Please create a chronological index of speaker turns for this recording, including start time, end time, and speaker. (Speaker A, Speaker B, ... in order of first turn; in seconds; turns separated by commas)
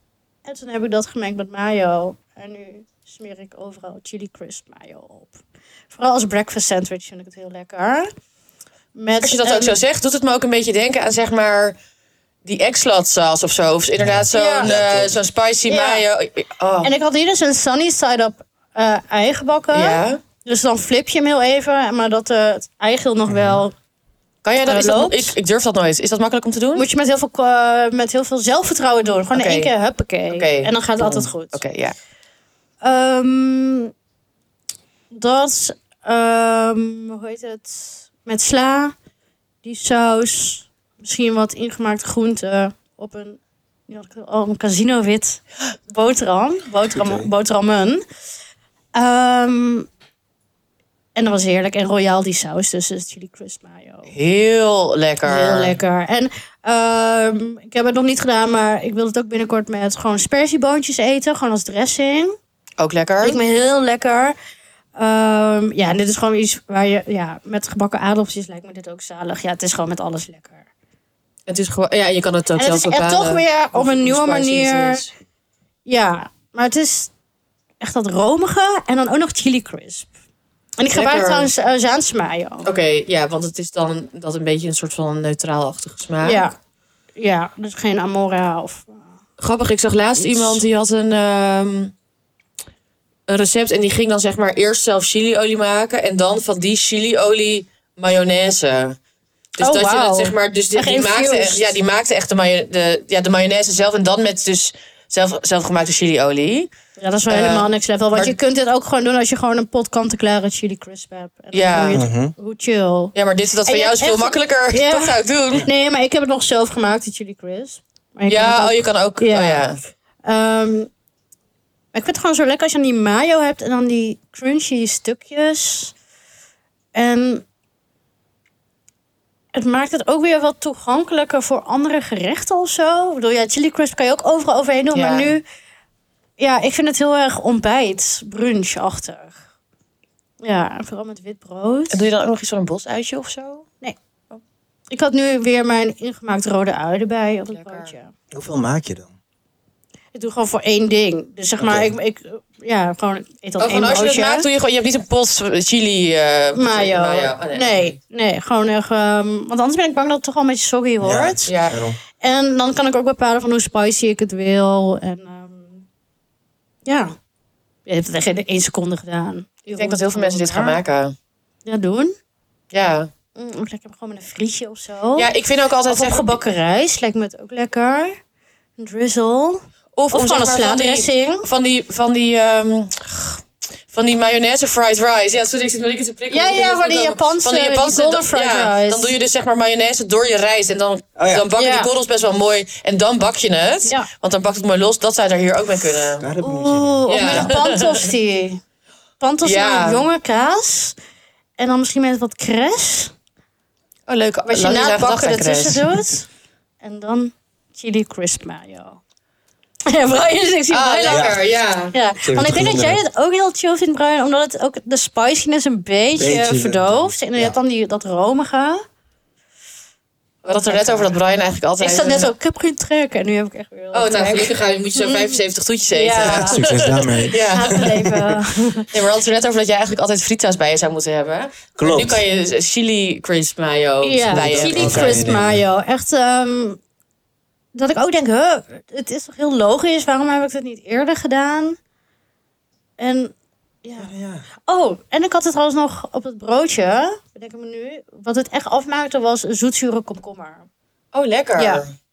Speaker A: 0.5-5.4, Speaker A: 5.9-8.1, Speaker A: 8.9-9.8, Speaker B: 9.2-11.8, Speaker B: 12.4-16.9, Speaker C: 14.0-15.2, Speaker A: 14.3-14.7, Speaker A: 15.7-16.0, Speaker A: 16.8-23.7, Speaker B: 19.7-20.2, Speaker C: 23.3-23.6, Speaker B: 24.4-26.9, Speaker A: 24.6-25.4, Speaker A: 26.8-31.6, Speaker B: 29.3-29.7, Speaker B: 30.3-31.9, Speaker A: 32.8-33.9, Speaker A: 35.1-38.9, Speaker A: 39.6-48.0, Speaker C: 46.9-47.3, Speaker A: 49.0-49.9, Speaker A: 51.2-54.1, Speaker B: 54.1-55.8, Speaker A: 55.2-62.4, Speaker B: 62.8-63.4, Speaker A: 63.2-64.4, Speaker A: 65.0-70.6, Speaker B: 71.5-75.1, Speaker A: 72.6-75.0, Speaker A: 75.9-77.1, Speaker A: 77.8-80.1, Speaker A: 80.8-82.7, Speaker B: 80.9-81.5, Speaker B: 82.6-86.5, Speaker A: 86.2-86.5, Speaker A: 87.2-89.0, Speaker B: 89.4-91.9, Speaker A: 90.2-90.6, Speaker B: 93.3-99.0, Speaker A: 99.6-101.7, Speaker B: 99.6-106.7, Speaker A: 107.0-113.1, Speaker B: 107.3-108.4, Speaker B: 111.5-112.0, Speaker C: 111.9-112.3, Speaker B: 113.2-115.7, Speaker A: 113.7-119.7, Speaker B: 118.3-119.8, Speaker A: 120.2-120.9, Speaker A: 121.9-125.9, Speaker A: 126.9-127.5, Speaker A: 129.5-135.4, Speaker B: 134.9-135.3, Speaker A: 136.4-139.4, Speaker A: 140.4-142.1, Speaker B: 141.9-143.7, Speaker A: 144.9-148.1, Speaker B: 147.5-147.9, Speaker C: 148.3-149.1, Speaker A: 150.1-154.5, Speaker C: 151.6-151.9, Speaker B: 153.6-158.0, Speaker A: 156.6-161.5, Speaker C: 161.0-162.0, Speaker B: 161.5-161.8, Speaker A: 162.2-165.8, Speaker A: 166.9-167.1, Speaker A: 167.9-170.8, Speaker B: 169.7-171.2, Speaker A: 171.7-172.2, Speaker B: 172.7-173.1, Speaker A: 173.4-175.3, Speaker B: 175.2-176.4, Speaker A: 175.9-178.2, Speaker A: 178.8-181.5, Speaker B: 180.0-196.3, Speaker A: 186.3-189.1, Speaker C: 191.2-191.5, Speaker A: 191.6-191.9, Speaker C: 196.2-197.5, Speaker A: 196.4-198.6, Speaker B: 197.1-198.1, Speaker A: 199.2-201.0, Speaker B: 199.4-200.0, Speaker A: 201.6-203.1, Speaker B: 204.1-206.0, Speaker A: 204.5-206.3, Speaker A: 206.8-209.0, Speaker A: 209.9-211.3, Speaker B: 210.7-211.9, Speaker C: 211.1-211.4, Speaker A: 211.9-218.8, Speaker C: 212.2-213.0, Speaker C: 216.2-217.6, Speaker A: 220.4-221.1, Speaker B: 220.4-222.3, Speaker A: 221.8-225.4, Speaker B: 223.9-228.0, Speaker A: 225.9-226.6, Speaker C: 226.2-228.4, Speaker A: 227.3-228.9, Speaker B: 228.9-235.2, Speaker C: 231.8-232.2, Speaker A: 234.0-236.8, Speaker C: 234.3-235.6, Speaker A: 237.7-241.8, Speaker A: 243.0-244.1, Speaker C: 244.0-244.5, Speaker A: 244.7-250.7, Speaker B: 251.1-251.9, Speaker A: 251.6-251.8